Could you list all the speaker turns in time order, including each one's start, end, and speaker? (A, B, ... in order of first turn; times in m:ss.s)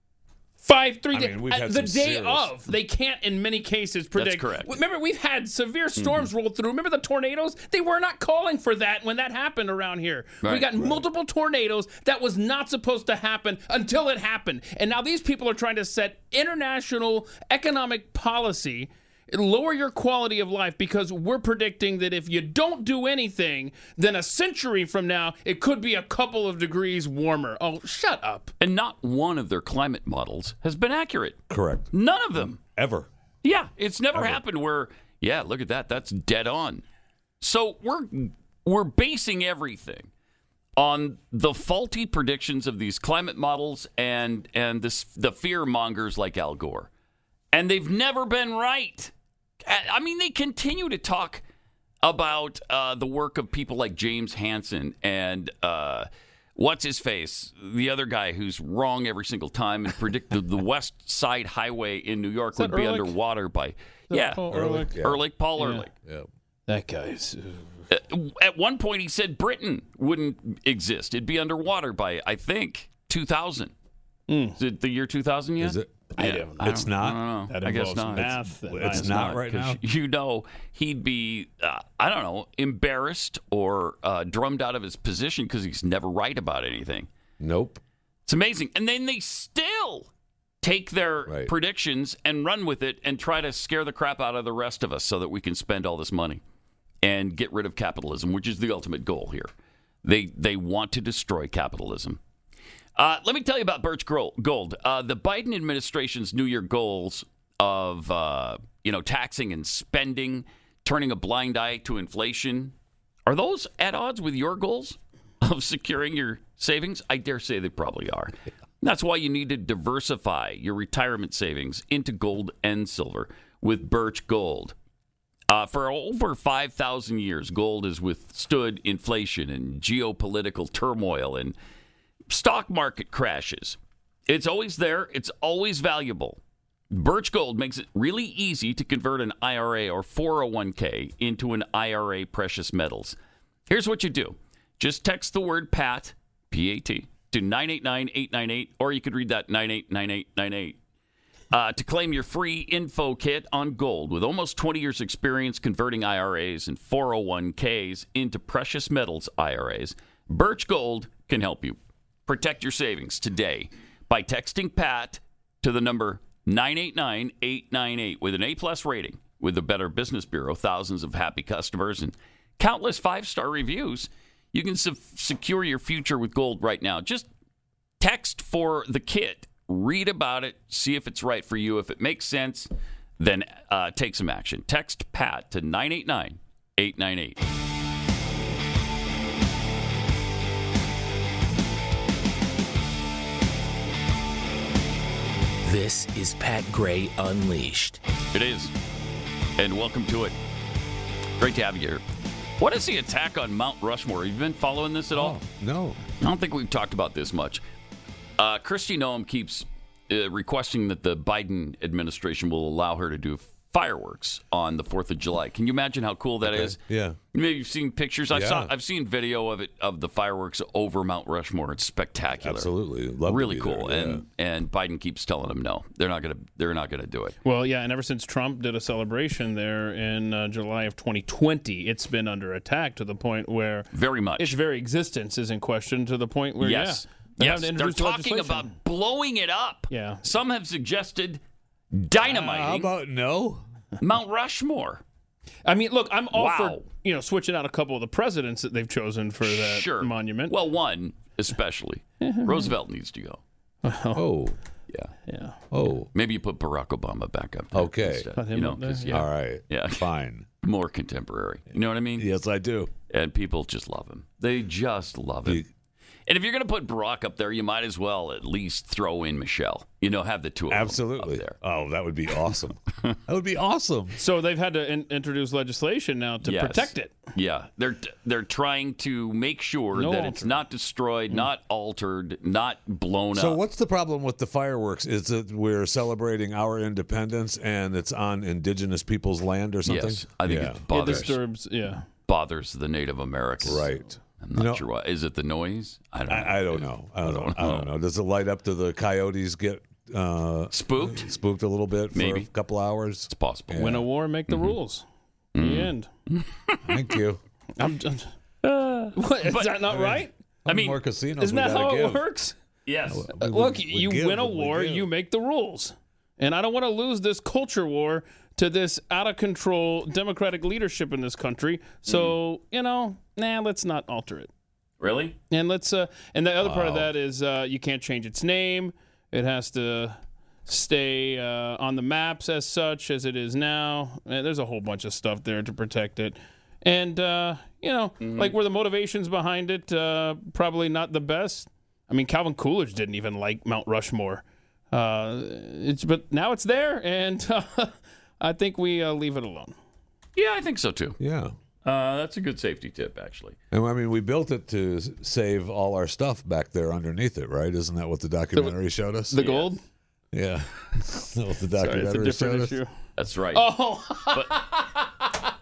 0:00.6-0:28.5 A
0:01.1-0:02.7 B
0:04.1-0:04.8 C
0:06.0-0:06.2 C
0:10.4-0:10.7 C
0:28.6-0:32.6 C
0:31.5-0:33.1 B
0:33.4-0:36.8 C
0:34.1-0:34.4 B
0:37.4-0:40.1 C
0:40.8-0:46.9 C
0:47.5-0:49.1 C
0:49.6-0:51.4 C
0:52.0-1:05.9 C
1:02.6-1:03.1 A
1:04.1-1:04.9 A
1:04.5-1:05.2 B
1:05.6-1:05.8 A
1:06.7-1:07.6 A
1:07.9-1:13.7 C
1:14.3-1:14.6 A
1:14.6-1:27.1 C
1:15.6-1:15.9 B
1:16.2-1:16.8 A
1:16.6-1:17.2 B
1:17.5-1:19.4 A
1:18.1-1:19.8 B
1:27.4-1:27.8 B
1:28.3-1:30.1 C
1:30.6-1:36.4 C
1:31.3-1:31.5 B
1:37.0-1:39.5 C
1:40.0-1:42.2 C
1:43.0-1:52.7 C
1:53.2-2:04.7 C
2:05.5-2:11.6 C
2:12.3-2:16.4 C
2:16.9-2:23.2 C
2:23.7-2:30.8 C
2:31.5-2:57.3 C
2:58.0-3:07.4 C
3:15.6-3:18.0 D
3:18.3-3:18.7 C
3:19.6-3:20.3 C
3:21.4-3:22.0 C
3:22.6-3:25.4 C
3:25.1-3:26.0 B
3:26.2-3:27.6 C
3:28.4-3:36.8 C
3:36.4-3:37.2 B
3:37.3-3:42.7 C
3:38.3-3:38.7 B
3:42.4-3:44.2 B
3:43.2-3:47.4 C
3:47.4-3:53.9 A
3:53.9-3:54.6 C
3:54.4-3:58.7 A
3:56.6-4:01.4 C
3:59.9-4:00.2 A
4:01.9-4:02.9 C
4:02.2-4:03.6 B
4:04.0-4:05.0 C
4:05.6-4:10.5 A
4:06.3-4:06.8 C
4:09.4-4:13.4 C
4:12.2-4:12.7 A
4:13.8-4:14.2 A
4:14.1-4:14.6 B
4:15.3-4:15.6 A
4:15.7-4:16.1 B
4:16.1-4:20.1 C
4:17.7-4:18.2 B
4:18.4-4:19.2 A
4:19.1-4:20.5 B
4:20.6-4:22.3 C
4:22.2-4:22.9 B
4:23.1-4:25.6 C
4:26.3-4:31.6 C
4:30.7-4:34.2 B
4:34.2-4:37.2 A
4:36.4-4:43.6 C
4:40.0-4:40.6 A
4:43.3-4:51.3 B
4:49.8-4:51.4 C
4:50.9-4:52.0 A
4:52.3-4:53.8 C
4:53.6-4:54.8 B
4:54.4-4:57.9 C
4:56.3-5:04.0 B
5:00.7-5:01.3 C
5:02.1-5:02.5 C
5:03.3-5:04.0 C
5:03.8-5:05.0 A
5:04.5-5:04.8 C
5:05.6-5:06.7 C
5:05.6-5:06.1 A
5:06.9-5:07.4 B
5:07.8-5:10.3 A
5:09.4-5:09.9 C
5:09.9-5:12.2 B
5:10.7-5:11.0 C
5:11.4-5:12.5 A
5:12.8-5:13.3 C
5:13.1-5:15.1 B
5:13.4-5:24.5 A
5:22.1-5:22.3 C
5:25.0-5:25.4 C
5:25.5-5:49.7 A
5:38.2-5:38.5 C
5:50.4-5:51.2 C
5:51.2-5:51.5 B
5:51.8-5:53.6 C
5:53.7-5:59.4 B
5:59.3-5:59.8 A
5:59.4-5:59.7 C
6:00.3-6:02.8 B
6:01.8-6:02.9 A
6:03.2-6:03.7 C
6:03.5-6:05.1 A